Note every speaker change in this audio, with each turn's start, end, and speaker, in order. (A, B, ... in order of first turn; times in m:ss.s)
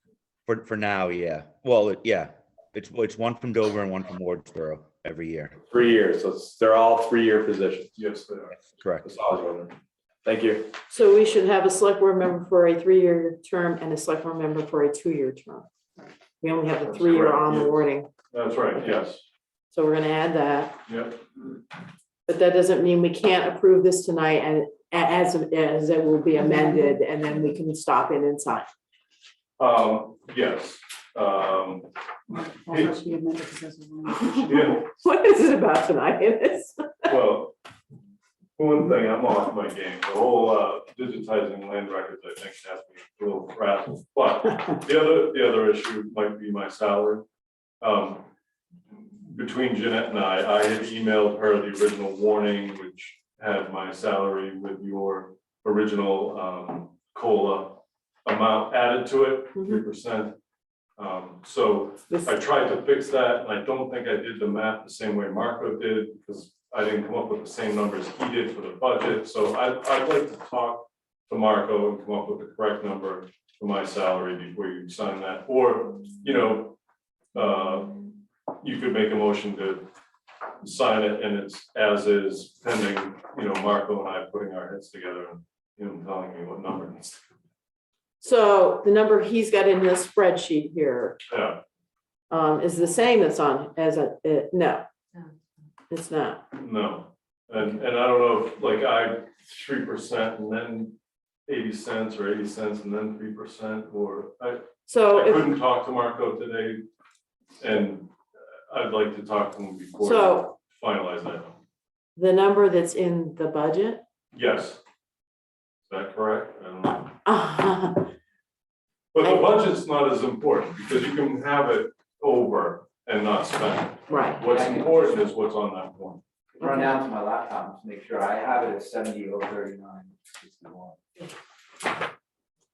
0:00.5-0:05.6 A
0:05.7-0:08.0 B
0:08.0-0:08.5 C
0:09.0-0:10.8 B
0:10.9-0:15.7 D
0:16.4-0:18.1 D
0:16.8-0:19.2 C
0:19.7-0:20.8 D
0:20.9-0:21.2 C
0:22.3-0:28.7 D
0:26.3-0:27.0 E
0:29.6-0:31.9 C
0:32.3-0:34.8 E
0:32.7-0:32.9 C
0:34.2-0:37.1 D
0:34.5-0:34.9 C
0:37.1-0:37.5 C
0:38.6-0:47.2 C
0:47.8-0:48.3 C
0:49.2-1:00.4 C
0:59.5-0:59.8 D
1:01.0-1:16.8 C
1:17.3-1:18.0 C
1:18.6-1:19.9 C
1:20.6-1:27.2 C
1:28.2-1:31.2 D
1:31.3-1:31.6 C
1:32.3-1:34.8 D
1:35.9-1:36.4 D
1:36.5-1:41.0 C
1:41.5-1:46.8 C
1:44.9-1:45.5 D
1:47.6-1:48.1 C
1:48.7-1:51.6 C
1:50.0-1:50.5 D
1:52.2-1:54.0 D
1:54.3-1:54.8 C
1:55.9-1:57.1 C
1:57.2-1:58.1 D
1:59.1-2:06.2 C
1:59.2-1:59.5 D
2:04.1-2:04.5 D
2:04.5-2:05.2 F
2:06.6-2:11.0 F
2:06.6-2:06.9 D